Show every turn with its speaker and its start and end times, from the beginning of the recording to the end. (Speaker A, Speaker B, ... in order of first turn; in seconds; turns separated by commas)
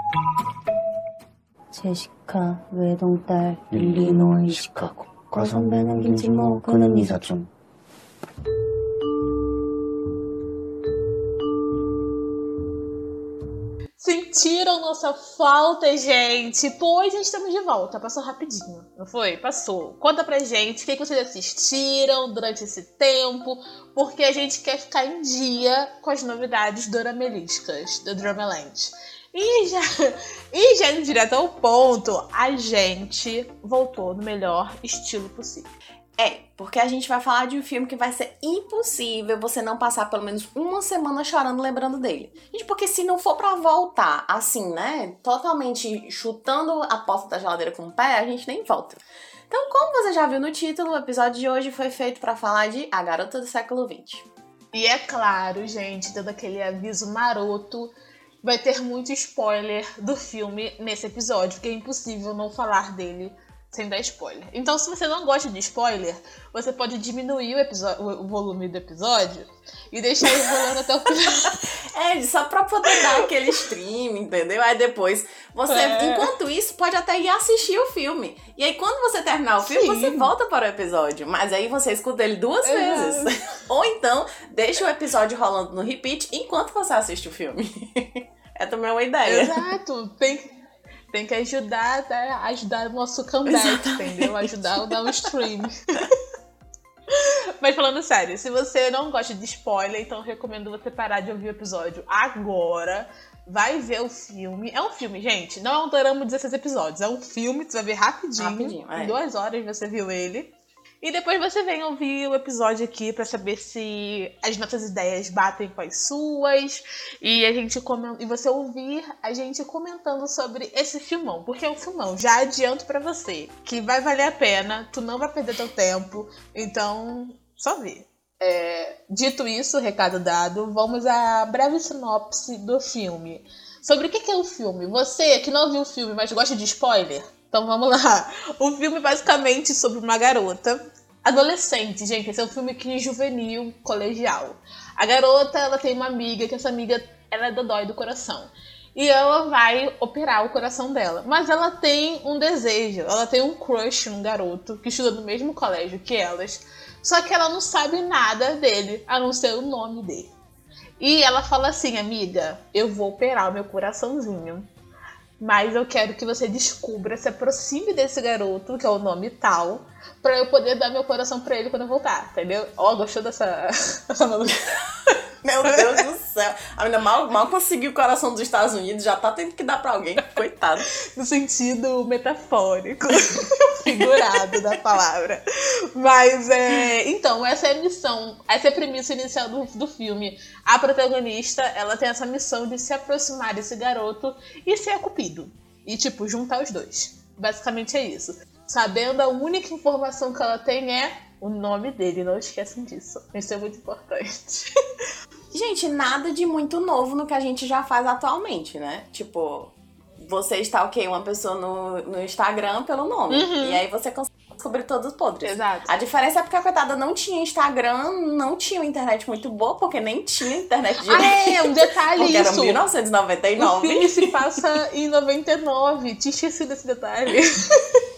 Speaker A: 1.7-7.5, Speaker B: 14.0-35.7, Speaker C: 36.2-54.3, Speaker B: 54.7-71.6, Speaker C: 71.7-89.6, Speaker B: 75.7-76.3, Speaker B: 79.6-80.3, Speaker B: 82.6-83.3, Speaker B: 89.2-90.5, Speaker B: 91.1-96.0, Speaker C: 93.5-95.3, Speaker B: 97.1-160.3, Speaker C: 108.4-109.2, Speaker B: 161.0-164.7, Speaker B: 165.4-174.6, Speaker C: 175.4-180.9, Speaker B: 175.7-176.0, Speaker B: 181.1-204.7, Speaker C: 183.8-184.6, Speaker C: 205.5-224.3, Speaker B: 213.3-213.8, Speaker B: 215.4-215.9, Speaker B: 221.0-222.8, Speaker B: 223.6-227.8